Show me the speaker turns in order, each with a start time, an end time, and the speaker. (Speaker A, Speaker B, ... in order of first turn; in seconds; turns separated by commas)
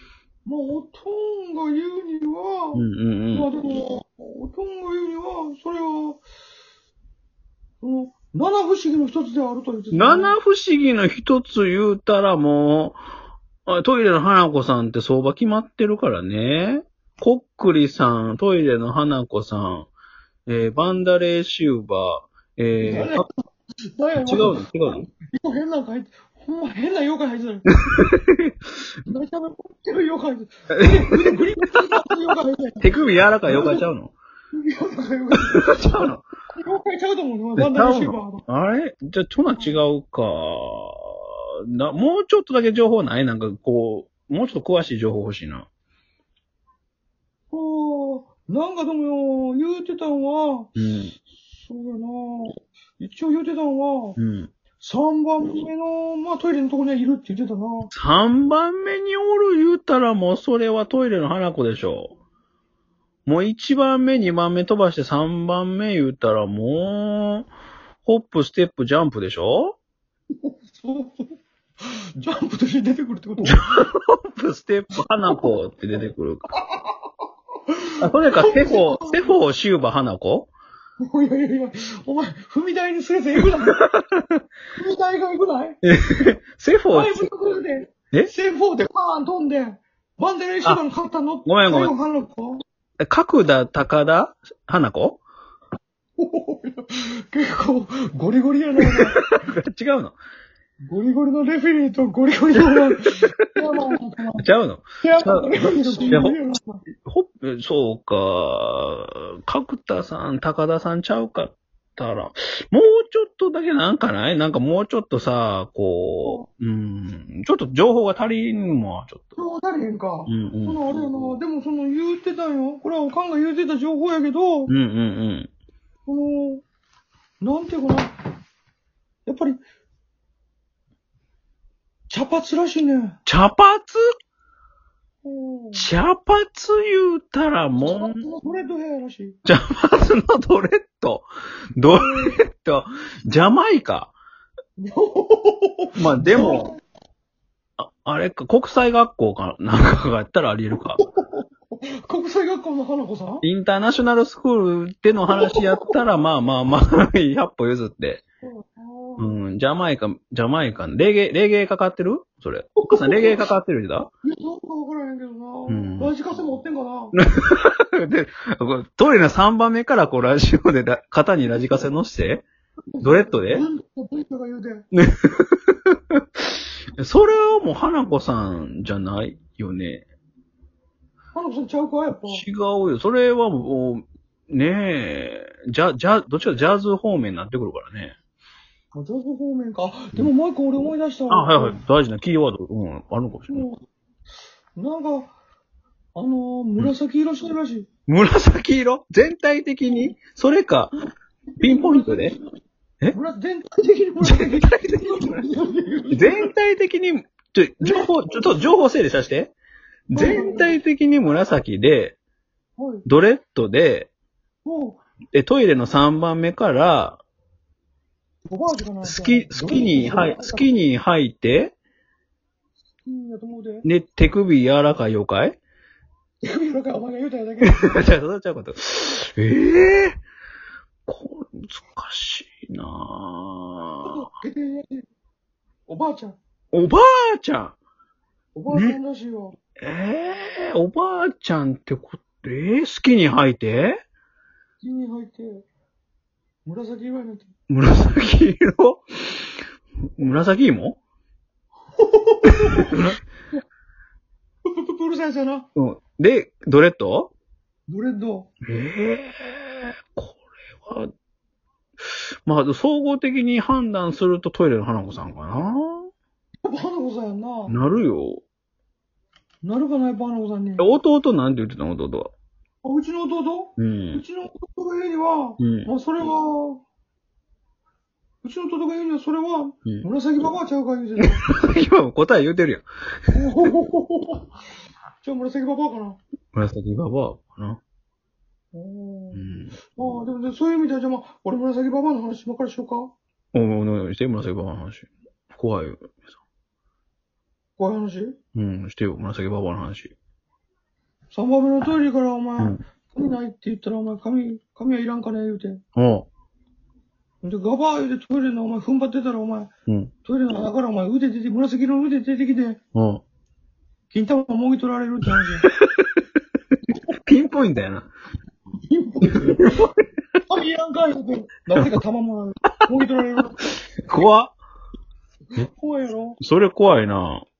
Speaker A: 0.4-6.2, Speaker B: 2.7-3.5, Speaker A: 7.8-10.3, Speaker B: 9.9-13.0, Speaker B: 13.7-19.9, Speaker B: 20.5-23.2, Speaker A: 22.8-23.2, Speaker A: 23.9-24.7, Speaker B: 24.2-25.1, Speaker A: 25.2-27.7, Speaker B: 27.8-28.5, Speaker A: 29.1-32.9, Speaker B: 30.7-31.4, Speaker B: 32.8-34.1, Speaker A: 33.5-33.8, Speaker A: 34.5-38.4, Speaker B: 35.5-36.2, Speaker B: 37.5-45.7, Speaker A: 47.5-50.7, Speaker B: 50.8-51.1, Speaker A: 51.4-54.2, Speaker B: 54.2-54.5, Speaker A: 54.8-57.9, Speaker B: 57.9-62.1, Speaker B: 63.2-67.5, Speaker B: 68.0-69.8, Speaker A: 70.4-73.8, Speaker B: 73.4-76.4, Speaker A: 76.6-77.0, Speaker A: 77.7-79.3, Speaker B: 78.0-80.5, Speaker A: 81.0-83.8, Speaker B: 83.8-84.4, Speaker A: 84.8-85.8, Speaker B: 85.8-87.2, Speaker A: 86.9-92.6, Speaker B: 91.4-91.9, Speaker B: 93.0-95.2, Speaker A: 96.2-99.2, Speaker B: 98.8-100.2, Speaker A: 100.9-104.4, Speaker B: 104.4-106.4, Speaker A: 105.0-106.8, Speaker B: 107.0-119.3, Speaker A: 119.3-124.7, Speaker B: 120.3-120.8, Speaker B: 124.7-125.5, Speaker A: 126.0-126.6, Speaker A: 127.4-128.1, Speaker A: 129.2-129.6, Speaker A: 132.1-133.2, Speaker B: 133.2-134.0, Speaker A: 135.2-135.9, Speaker B: 135.7-138.2, Speaker A: 137.8-139.4, Speaker B: 139.4-144.1, Speaker A: 141.9-142.4, Speaker A: 144.8-146.8, Speaker B: 145.9-146.7, Speaker B: 147.8-151.0, Speaker A: 151.0-151.4, Speaker A: 152.0-153.4, Speaker B: 153.4-158.2, Speaker A: 155.3-155.9, Speaker A: 158.4-159.4, Speaker B: 159.2-164.1, Speaker A: 162.8-163.4, Speaker A: 164.2-167.2, Speaker B: 165.7-166.1, Speaker B: 167.1-172.4, Speaker A: 172.9-174.8, Speaker B: 173.0-173.6, Speaker B: 174.9-180.0, Speaker A: 181.3-182.4, Speaker B: 182.3-188.1, Speaker A: 188.9-191.8, Speaker B: 191.3-193.6, Speaker A: 193.5-193.8, Speaker A: 194.8-195.3, Speaker A: 196.1-197.9, Speaker B: 198.1-200.9, Speaker A: 201.6-202.4, Speaker B: 201.6-202.3, Speaker A: 203.1-206.5, Speaker B: 204.2-205.4, Speaker B: 206.1-209.5, Speaker A: 207.8-208.1, Speaker B: 210.1-212.2, Speaker A: 210.1-210.7, Speaker A: 212.8-213.1, Speaker B: 213.1-214.1, Speaker A: 214.6-215.0, Speaker B: 215.3-217.2, Speaker A: 218.5-220.7, Speaker B: 219.0-221.7, Speaker A: 223.0-223.8, Speaker B: 223.8-225.6, Speaker A: 226.4-228.0, Speaker B: 227.6-230.2, Speaker B: 231.1-234.2, Speaker A: 234.0-235.0, Speaker A: 235.9-236.4, Speaker B: 236.7-237.8, Speaker A: 238.5-239.6, Speaker B: 238.7-239.0, Speaker B: 239.8-244.0, Speaker A: 244.8-245.6, Speaker A: 246.6-247.5, Speaker B: 247.7-249.6, Speaker B: 250.2-251.0, Speaker A: 252.0-253.0, Speaker B: 252.4-253.2, Speaker A: 254.7-255.7, Speaker B: 255.8-257.3, Speaker A: 257.9-258.5, Speaker B: 258.6-261.1, Speaker B: 262.0-266.1, Speaker A: 266.6-267.7, Speaker B: 267.7-268.4, Speaker A: 269.6-270.9, Speaker B: 270.8-272.3, Speaker A: 272.8-276.8, Speaker B: 273.8-274.2, Speaker B: 275.6-275.9, Speaker A: 278.4-281.4, Speaker B: 281.2-282.9, Speaker A: 283.3-284.5, Speaker A: 285.2-286.2, Speaker B: 286.5-287.8, Speaker A: 288.7-293.1, Speaker B: 289.3-289.8, Speaker B: 293.5-296.2, Speaker A: 297.8-298.4, Speaker B: 298.5-300.1, Speaker A: 301.3-305.8, Speaker B: 305.9-306.3, Speaker A: 307.4-309.7, Speaker B: 309.9-310.1, Speaker A: 310.2-312.8, Speaker B: 312.9-313.2, Speaker A: 314.1-315.6, Speaker B: 315.6-316.2, Speaker B: 317.2-318.1, Speaker A: 318.9-319.8, Speaker B: 319.4-319.9, Speaker A: 320.4-323.7, Speaker B: 324.0-324.6, Speaker A: 325.6-326.4, Speaker B: 326.4-327.4